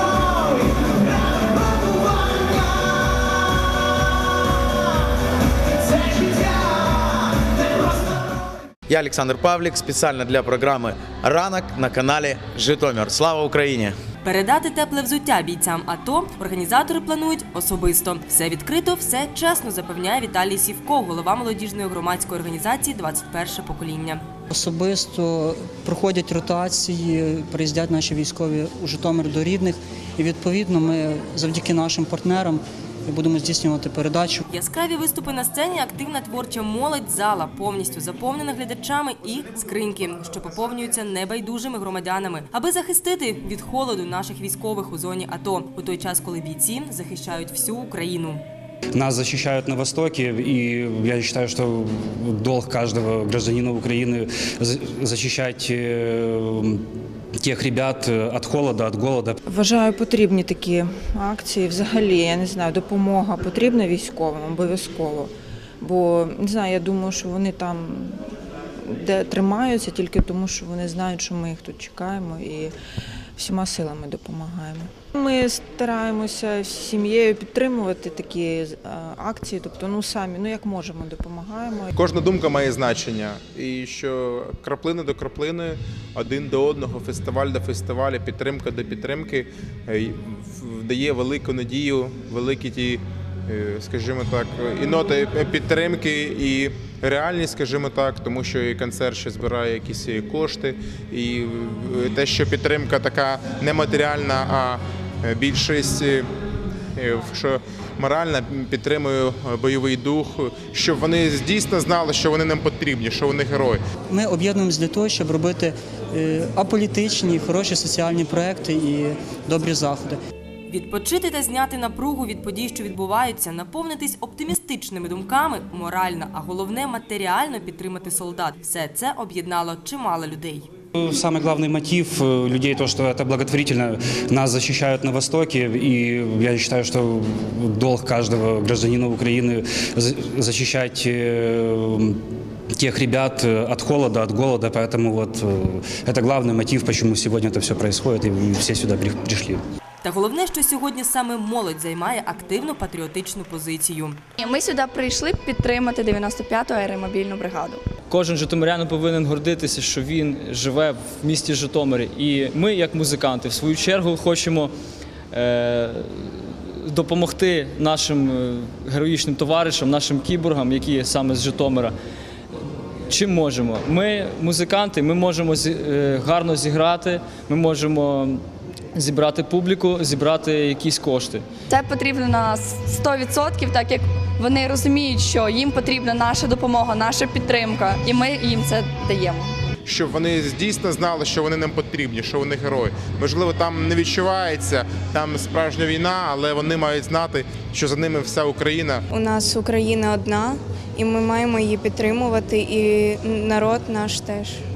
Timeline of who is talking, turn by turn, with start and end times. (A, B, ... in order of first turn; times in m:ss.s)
0:08.9-0:14.0 A
0:14.2-0:24.2 B
0:24.5-0:34.4 C
0:34.5-0:48.4 B
0:48.9-0:56.8 D
0:57.4-0:59.4 D
0:59.4-1:08.2 E
1:08.8-1:12.7 E
1:13.4-1:21.9 E
1:21.9-1:46.2 F
1:47.0-1:53.8 F
1:54.1-2:00.2 C
2:00.7-2:10.7 B
2:11.0-2:22.2 D
2:22.7-2:29.6 D
2:30.0-2:34.2 B
2:34.4-2:37.8 G
2:38.1-2:44.7 H
2:45.3-2:52.0 H
2:53.1-2:58.4 H
2:58.9-3:01.4 H
3:01.7-3:09.5 G
3:09.9-3:19.0 F
3:19.1-3:24.6 I